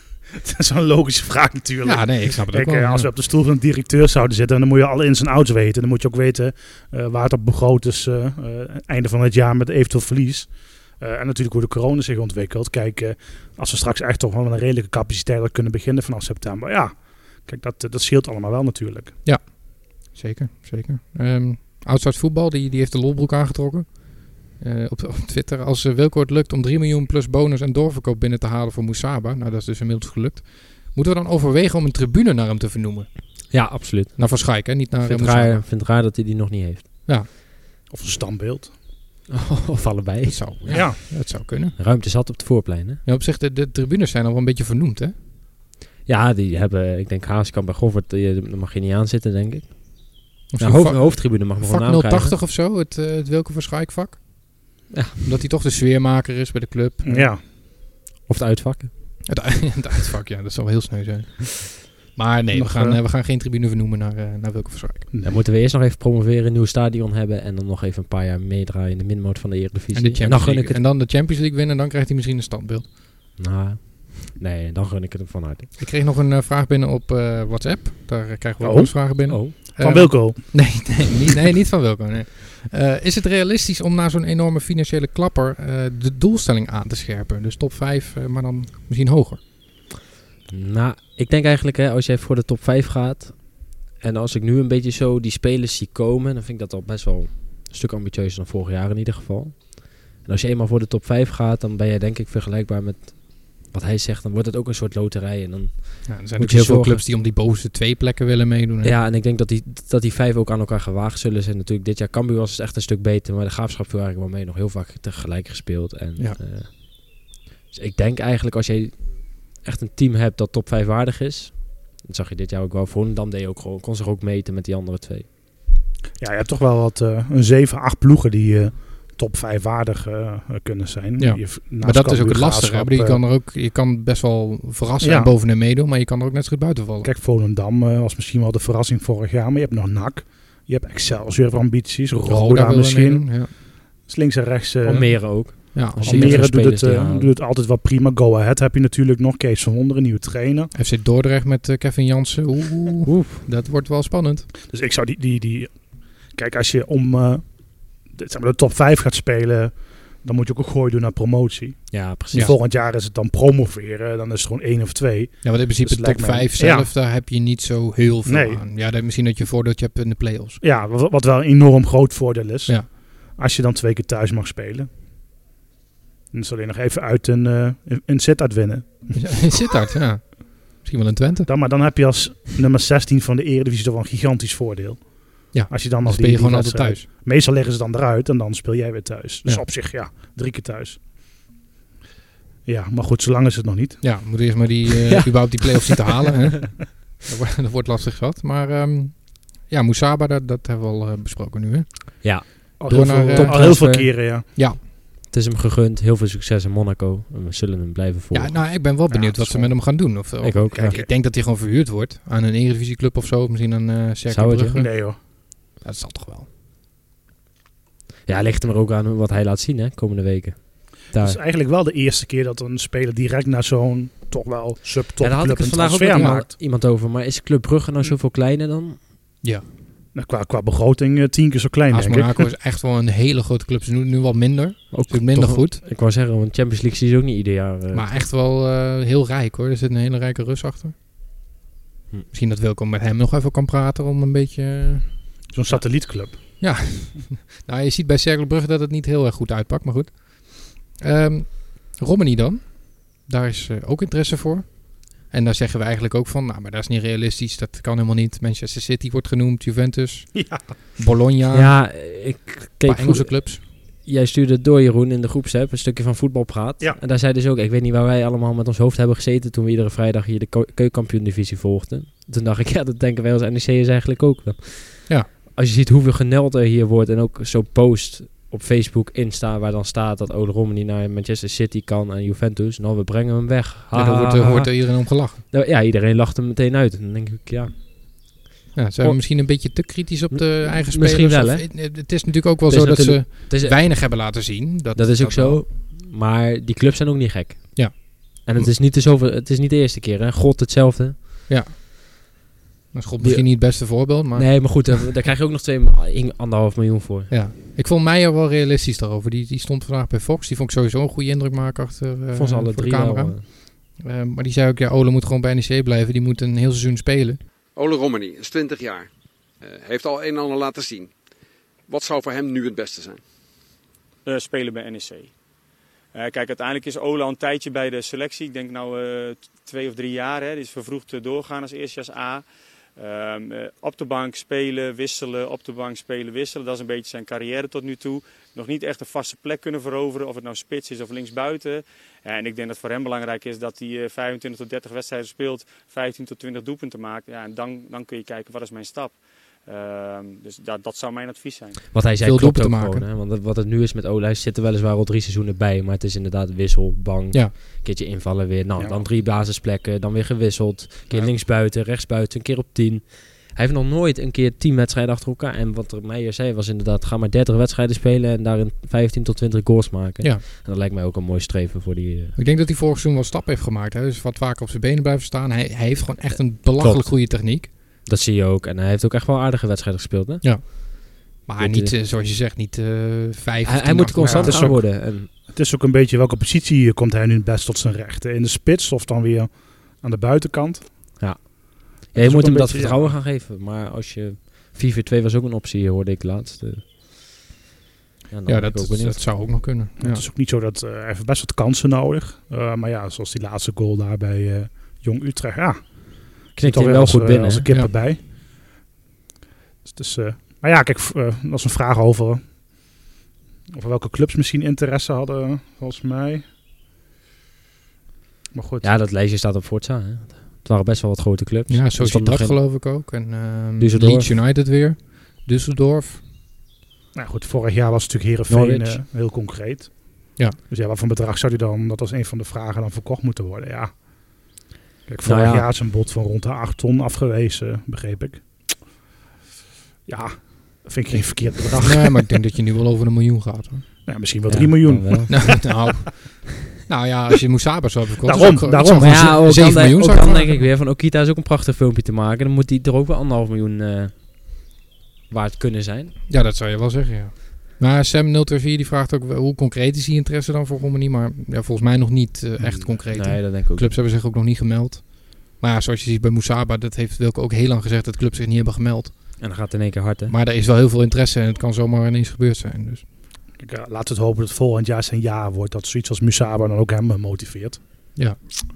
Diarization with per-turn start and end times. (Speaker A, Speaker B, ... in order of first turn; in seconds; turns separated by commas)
Speaker A: 0.4-19.1, Speaker B: 1.8-3.1, Speaker B: 19.2-33.6, Speaker C: 33.5-36.9, Speaker B: 34.1-35.6, Speaker A: 37.9-38.7, Speaker C: 39.3-43.0, Speaker B: 40.3-41.8, Speaker A: 40.7-41.0, Speaker B: 43.0-45.1, Speaker C: 46.0-52.4, Speaker B: 50.5-57.3, Speaker C: 54.9-55.3, Speaker A: 57.0-57.4, Speaker C: 58.2-59.3, Speaker B: 59.3-65.1, Speaker A: 62.5-63.0, Speaker A: 65.1-65.4, Speaker C: 65.2-70.8, Speaker B: 69.9-72.9, Speaker C: 73.4-75.7, Speaker B: 75.8-89.4, Speaker A: 78.6-81.1, Speaker C: 79.3-79.5, Speaker C: 90.5-107.0, Speaker B: 106.1-109.0, Speaker C: 108.8-125.3, Speaker A: 126.2-133.2, Speaker B: 131.2-137.1, Speaker A: 135.0-135.3, Speaker A: 137.0-150.7, Speaker B: 142.2-143.5, Speaker C: 144.8-147.3, Speaker B: 144.9-146.5, Speaker B: 150.7-154.5, Speaker C: 153.1-153.4, Speaker A: 154.7-166.9, Speaker C: 161.9-162.5, Speaker B: 165.4-170.6, Speaker A: 168.2-168.6, Speaker A: 170.6-174.9, Speaker A: 176.3-179.4, Speaker B: 179.1-181.5, Speaker A: 181.5-191.0, Speaker B: 185.5-187.0, Speaker A: 192.6-194.0, Speaker B: 194.0-204.8, Speaker C: 194.9-196.2, Speaker C: 202.2-204.6, Speaker A: 202.8-204.4, Speaker C: 205.3-208.8, Speaker B: 208.3-216.5, Speaker A: 209.1-209.8, Speaker C: 210.4-211.0, Speaker A: 210.7-211.1, Speaker C: 214.3-214.8, Speaker A: 214.7-215.2, Speaker C: 218.2-221.4, Speaker A: 221.1-226.5, Speaker C: 225.2-229.0, Speaker B: 226.1-226.4, Speaker A: 230.1-232.4, Speaker B: 231.9-235.8, Speaker C: 234.9-238.2, Speaker B: 237.9-240.9, Speaker B: 242.3-261.9, Speaker A: 245.5-247.0, Speaker A: 260.3-260.6, Speaker C: 261.5-288.4, Speaker B: 262.8-263.6, Speaker B: 283.9-285.4, Speaker B: 288.7-295.6, Speaker C: 289.0-289.3, Speaker C: 290.3-291.9, Speaker C: 292.7-294.4, Speaker C: 294.9-301.1, Speaker B: 297.7-298.7, Speaker B: 301.5-301.7, Speaker B: 302.9-305.0, Speaker C: 303.2-307.3, Speaker B: 307.3-317.4, Speaker C: 312.3-313.4, Speaker D: 317.7-319.1, Speaker D: 319.6-321.1, Speaker D: 321.9-323.2, Speaker E: 324.2-325.3, Speaker E: 326.1-332.4, Speaker E: 333.0-351.8, Speaker C: 351.9-372.4, Speaker B: 352.2-353.1, Speaker A: 358.8-359.1, Speaker B: 372.4-377.7, Speaker C: 376.4-377.3, Speaker C: 378.0-380.7, Speaker B: 380.4-384.7, Speaker C: 381.6-381.9, Speaker C: 383.6-385.3, Speaker A: 384.2-391.2, Speaker C: 391.2-397.0, Speaker A: 392.1-393.1, Speaker C: 398.3-399.6, Speaker B: 398.4-400.2, Speaker A: 400.0-408.3, Speaker C: 406.6-407.7, Speaker A: 409.9-412.9, Speaker A: 413.7-416.5, Speaker A: 418.5-418.9, Speaker C: 418.8-422.6, Speaker B: 421.7-426.2, Speaker C: 423.8-424.3, Speaker A: 427.1-434.5, Speaker C: 428.5-429.0, Speaker A: 435.1-438.8, Speaker C: 435.2-435.7, Speaker A: 440.1-442.3, Speaker B: 441.8-443.9, Speaker A: 444.1-445.8, Speaker C: 444.5-445.7, Speaker B: 445.3-450.7, Speaker A: 448.2-449.8, Speaker C: 448.9-454.1, Speaker C: 455.3-456.1, Speaker B: 456.3-469.5, Speaker C: 463.1-463.9, Speaker C: 469.4-470.3, Speaker B: 470.3-473.0, Speaker A: 473.6-477.8